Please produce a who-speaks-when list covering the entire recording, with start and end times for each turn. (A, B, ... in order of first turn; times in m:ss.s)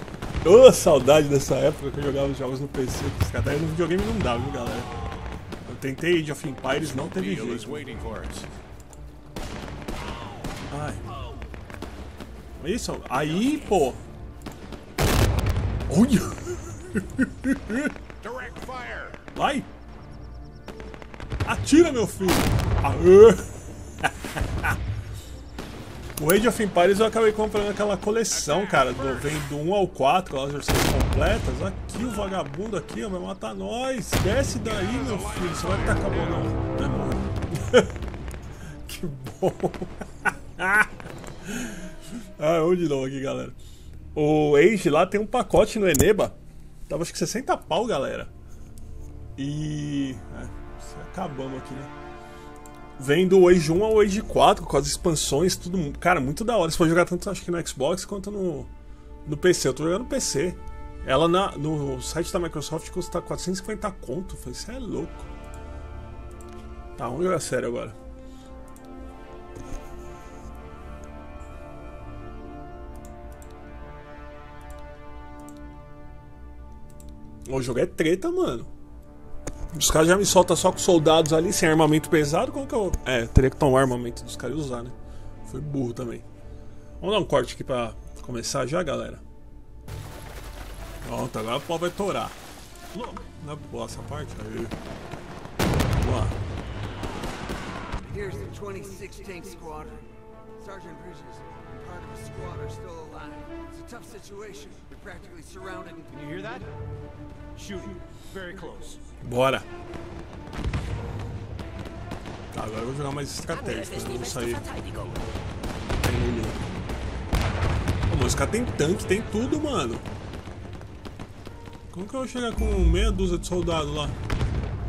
0:00.4-0:04.9 A
0:05.6-0:07.8 A
0:06.9-0:08.5 B
0:10.7-0:11.0 A
0:12.6-0:14.0 A
0:15.9-0:17.9 A
0:18.2-0:19.2 B
0:19.3-0:19.7 A
0:21.4-0:24.7 A
0:26.2-0:38.0 A
0:28.3-0:29.4 B
0:34.7-0:36.5 B
0:38.8-0:43.6 A
0:44.1-0:48.3 A
0:49.4-0:51.9 A
0:53.0-0:58.7 A
0:59.2-1:05.3 A
1:07.0-1:08.0 A
1:17.4-1:18.7 A
1:19.7-1:26.2 A
1:27.0-1:29.2 A
1:31.0-1:32.4 A
1:33.0-1:34.8 A
1:35.9-1:36.4 A
1:38.0-1:40.0 C
1:40.6-1:46.2 C
1:46.1-1:46.7 B
1:47.6-1:49.0 B
1:49.2-1:49.7 A
1:52.5-1:54.8 A
1:56.0-1:56.6 A
1:58.0-2:00.0 A
2:01.9-2:04.2 A